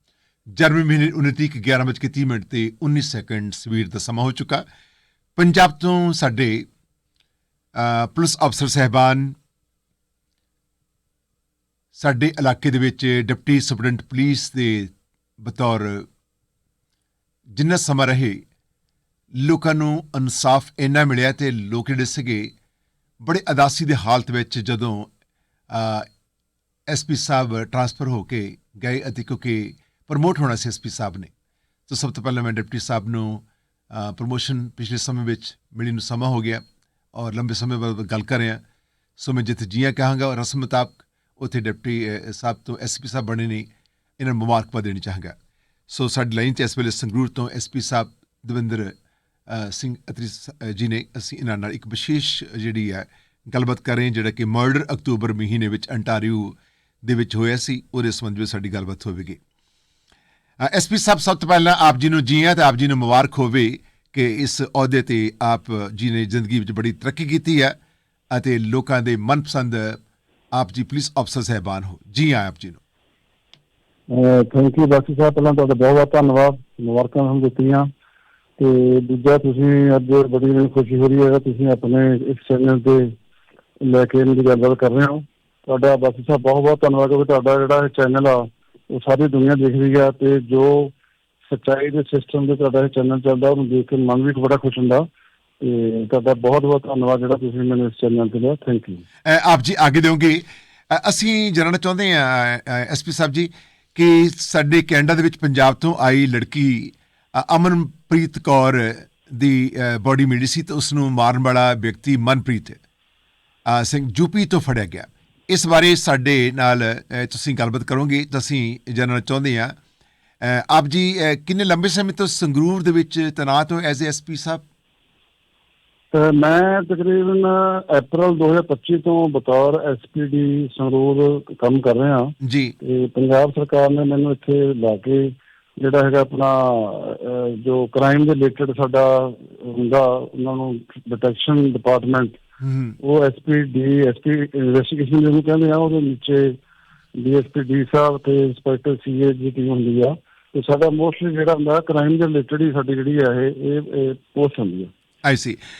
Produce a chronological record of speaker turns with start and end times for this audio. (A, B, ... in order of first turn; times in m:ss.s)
0:00.6-0:04.6 A
0:05.4-0:06.7 A
0:07.8-0:09.4 A
0:12.0-0:16.1 A
0:17.6-0:18.4 A
0:19.4-0:22.5 A
0:23.2-0:25.1 A
0:25.7-0:26.1 A
0:26.9-0:31.3 A
0:31.9-0:36.6 A
0:37.2-0:38.6 A
0:39.2-0:43.7 A
0:44.2-0:45.3 A
0:45.9-0:49.0 A
0:49.5-0:59.4 A
1:00.6-1:07.8 A
1:08.3-1:10.0 A
1:10.5-1:12.8 A
1:14.1-1:17.9 B
1:18.6-1:23.1 B
1:23.8-1:30.9 B
1:31.5-1:35.1 B
1:35.6-1:39.0 B
1:39.2-1:52.8 A
1:53.7-1:59.8 A
2:00.4-2:04.6 A
2:06.1-2:22.4 B
2:12.4-2:12.7 A
2:22.6-2:23.0 A
2:23.0-2:26.6 B
2:27.2-2:34.9 B
2:35.2-2:35.6 A